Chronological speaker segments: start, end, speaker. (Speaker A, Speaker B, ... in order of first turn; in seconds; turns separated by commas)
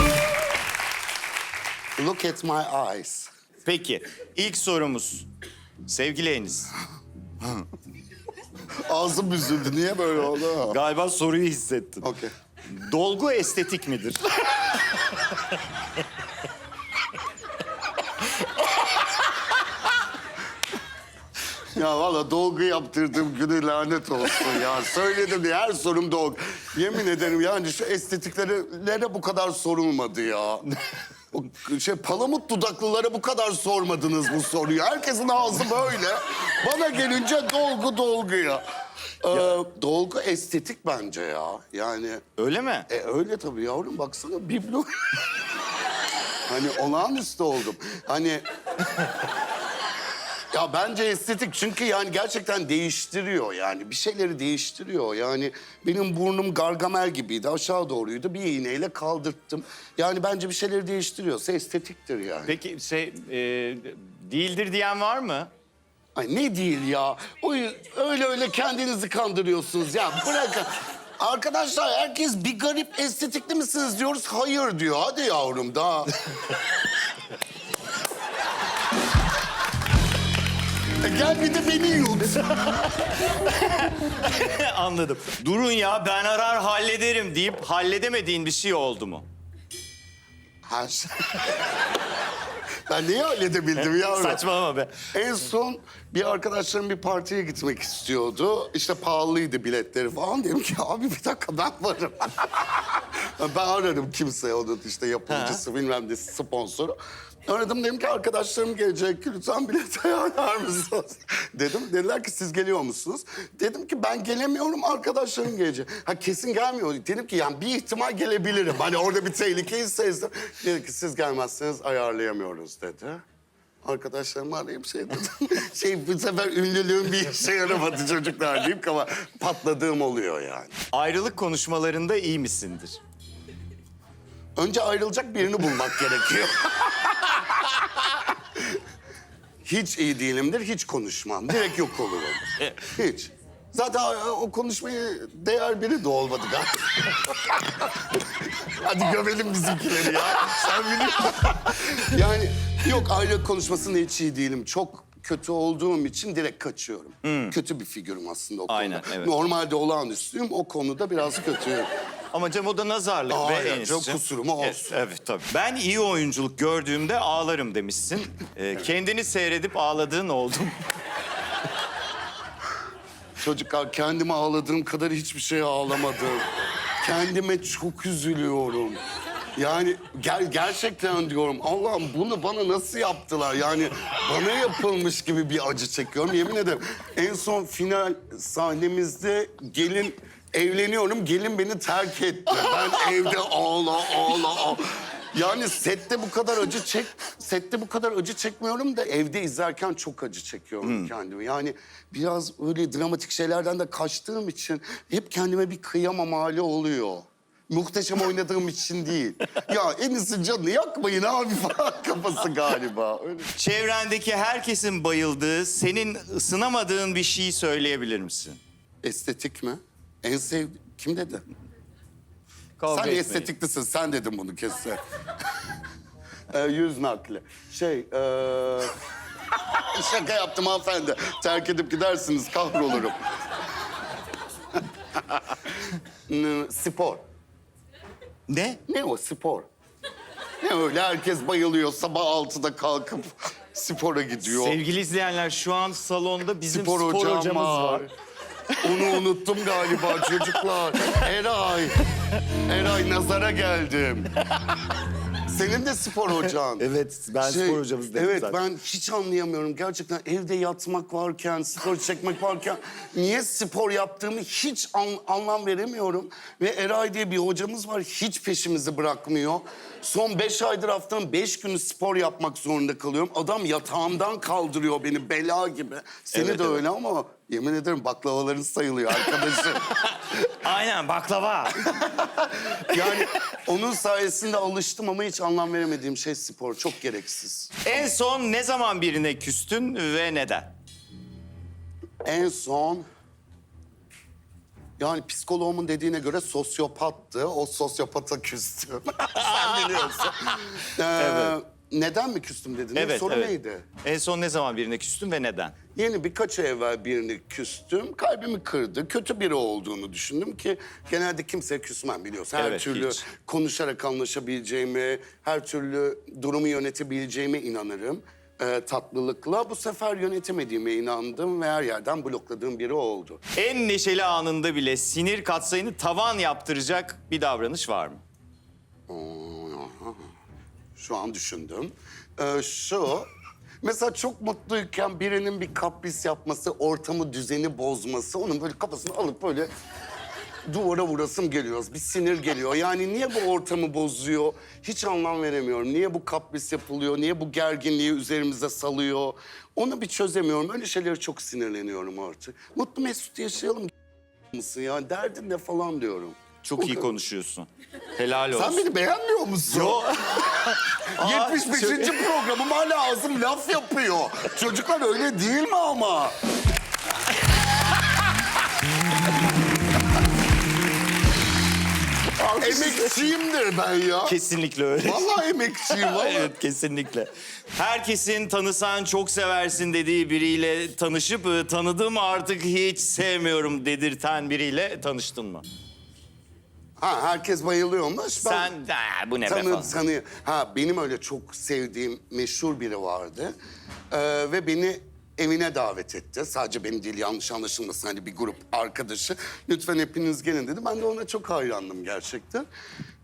Speaker A: 2.0-3.3, Speaker B: 3.6-5.3, Speaker B: 5.8-6.7, Speaker B: 7.4-7.7, Speaker A: 8.9-10.8, Speaker B: 10.6-12.1, Speaker A: 12.0-12.3, Speaker B: 12.7-14.2, Speaker A: 21.7-30.7, Speaker A: 31.3-38.6, Speaker A: 39.2-42.2, Speaker B: 42.4-42.9, Speaker A: 42.9-44.9, Speaker A: 46.5-48.4, Speaker A: 50.5-62.5, Speaker B: 62.5-65.5, Speaker A: 66.2-76.2, Speaker A: 81.0-82.8, Speaker B: 82.6-89.2, Speaker A: 90.7-91.6, Speaker A: 92.9-94.4, Speaker B: 93.7-95.0, Speaker A: 95.1-123.2, Speaker B: 105.3-105.6, Speaker A: 123.8-130.7, Speaker B: 130.9-133.0, Speaker A: 134.6-138.8, Speaker A: 139.6-161.9, Speaker B: 157.2-157.6, Speaker B: 158.7-159.3, Speaker B: 162.3-170.8, Speaker A: 163.3-164.9, Speaker A: 173.4-176.5, Speaker A: 177.0-179.0, Speaker A: 179.6-213.5, Speaker B: 200.8-201.1, Speaker B: 213.6-218.6, Speaker A: 219.0-221.4, Speaker B: 222.8-223.5, Speaker A: 222.9-225.0, Speaker A: 226.5-228.9, Speaker A: 229.8-233.2, Speaker A: 236.3-237.2, Speaker B: 238.5-238.8, Speaker A: 238.9-239.7, Speaker A: 240.6-244.8, Speaker B: 244.4-248.1, Speaker A: 246.7-248.1, Speaker A: 248.8-252.0, Speaker B: 248.9-249.2, Speaker B: 249.9-251.2, Speaker A: 252.6-254.3, Speaker A: 255.5-256.9, Speaker B: 256.8-258.6, Speaker A: 257.4-279.8, Speaker B: 276.3-276.8, Speaker B: 279.2-283.2, Speaker A: 282.7-288.1, Speaker B: 287.8-290.7, Speaker A: 292.2-293.1, Speaker A: 295.0-303.9, Speaker B: 299.3-301.5, Speaker B: 302.9-305.8, Speaker A: 305.9-323.4, Speaker B: 312.6-313.2, Speaker B: 323.5-328.2, Speaker A: 329.1-330.3, Speaker A: 330.9-333.3, Speaker A: 333.8-339.7, Speaker A: 340.7-353.9, Speaker A: 354.5-357.1, Speaker B: 356.6-358.8, Speaker A: 358.5-360.0, Speaker B: 359.7-362.2, Speaker A: 360.6-366.3, Speaker B: 372.4-373.3, Speaker A: 372.6-374.4, Speaker B: 374.2-375.3, Speaker A: 375.0-376.5, Speaker B: 375.9-385.6, Speaker A: 387.0-388.7, Speaker B: 388.4-390.0, Speaker A: 389.4-393.5, Speaker A: 394.1-402.7